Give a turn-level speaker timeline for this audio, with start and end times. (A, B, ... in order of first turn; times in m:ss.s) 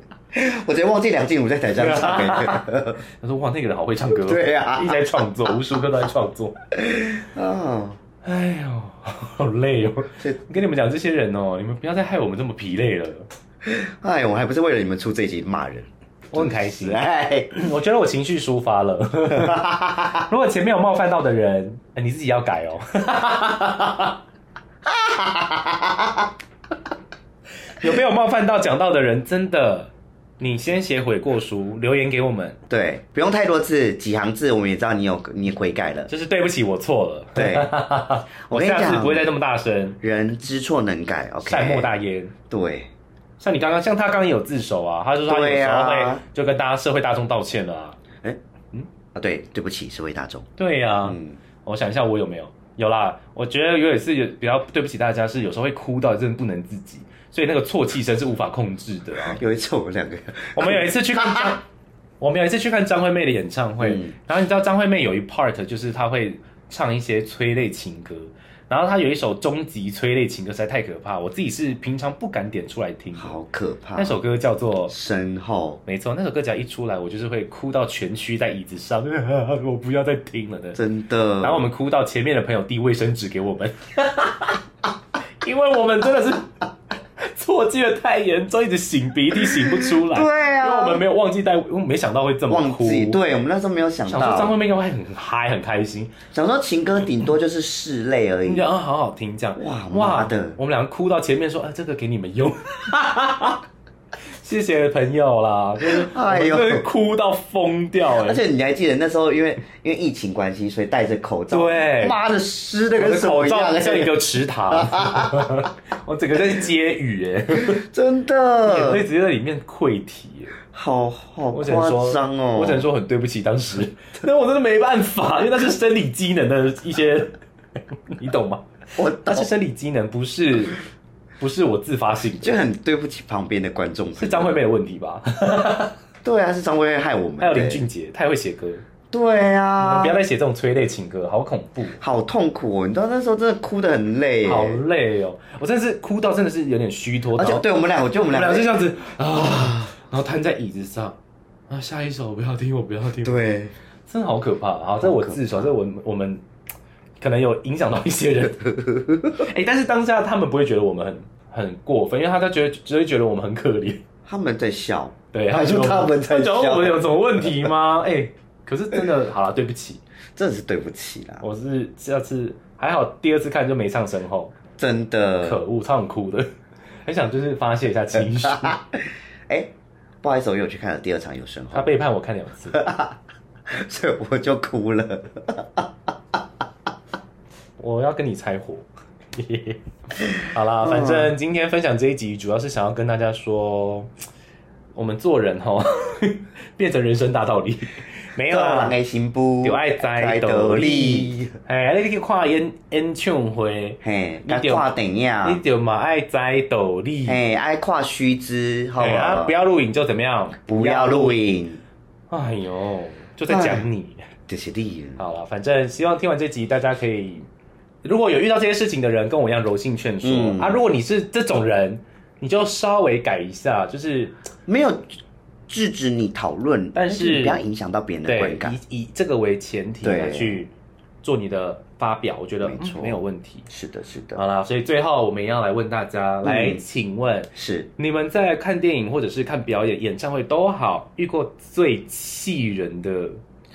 0:00.3-0:03.0 A
0:01.8-0:02.7 B
0:03.2-0:06.6 B
0:04.1-0:05.0 A
0:06.8-0:08.0 A
0:08.2-0:13.3 B
0:13.6-0:17.5 A
0:16.3-0:24.2 B
0:19.3-0:20.2 A
0:24.8-0:26.3 A
0:27.8-0:32.6 B
0:32.7-0:36.1 A
0:36.1-0:40.0 B
0:37.3-0:37.7 A
0:38.5-0:39.2 A
0:40.0-0:41.9 A
0:41.4-0:42.3 B
0:42.5-0:42.9 A
0:43.4-0:48.0 B
0:45.3-0:46.2 A
0:49.1-0:50.5 A
0:50.6-0:59.4 B
0:51.0-0:51.4 A
0:59.2-1:01.6 A
1:00.5-1:01.6 B
1:02.2-1:13.4 B
1:03.8-1:04.1 A
1:13.2-1:14.2 A
1:14.0-1:14.9 B
1:14.9-1:15.8 A
1:15.8-1:20.8 B
1:20.8-1:21.6 A
1:21.4-1:24.6 B
1:25.4-1:26.5 B
1:27.2-1:33.2 B
1:29.5-1:31.0 A
1:32.5-1:34.5 A
1:34.1-1:36.1 B
1:36.3-1:38.6 A
1:38.4-1:43.6 B
1:39.6-1:40.6 A
1:44.4-1:48.4 B
1:45.8-1:46.8 A
1:48.1-1:55.6 A
1:51.5-1:52.2 B
1:53.0-1:57.8 B
1:57.6-1:59.0 A
1:58.6-2:00.5 B
2:00.7-2:02.8 A
2:01.5-2:07.3 B
2:08.1-2:08.6 B
2:09.0-2:09.5 A
2:09.2-2:10.8 B
2:11.4-2:12.6 B
2:12.4-2:14.6 A
2:14.2-2:15.9 B
2:16.2-2:17.8 A
2:17.4-2:18.8 B
2:19.1-2:20.2 A
2:19.8-2:22.0 B
2:22.0-2:24.8 A
2:24.4-2:27.6 B
2:27.4-2:28.7 A
2:28.3-2:31.2 B
2:29.4-2:29.8 A
2:31.7-2:33.4 B
2:33.2-2:33.7 A
2:34.1-2:36.4 B
2:35.0-2:35.7 A
2:37.2-2:38.7 B
2:38.8-2:39.3 A
2:39.3-2:44.0 B
2:44.2-2:47.6 A
2:45.3-2:50.0 B
2:50.4-2:51.4 A
2:51.4-2:54.5 B
2:54.8-2:55.6 A
2:55.4-2:56.5 B
2:57.0-2:58.8 B
2:58.5-3:01.9 A
3:01.7-3:02.8 B
3:02.7-3:05.9 A
3:07.8-3:14.1 B
3:10.8-3:11.3 A
3:14.9-3:18.9 B
3:18.5-3:21.6 A
3:19.6-3:24.9 B
3:24.0-3:25.6 A
3:25.4-3:27.4 B
3:27.2-3:29.5 A
3:29.0-3:31.4 B
3:30.7-3:31.8 A
3:32.3-3:34.2 B
3:33.5-3:33.8 A
3:34.5-3:35.2 A
3:35.2-3:37.4 B
3:38.0-3:44.4 B
3:40.2-3:40.8 A
3:44.7-3:45.1 A
3:45.7-3:48.8 A
3:46.9-3:47.6 B
3:48.2-3:50.7 B
3:50.0-3:50.6 A
3:51.2-3:53.7 B
3:52.6-3:53.2 A
3:53.7-3:54.4 A
3:54.3-4:03.4 B
3:56.4-3:56.8 A
3:57.5-3:57.9 A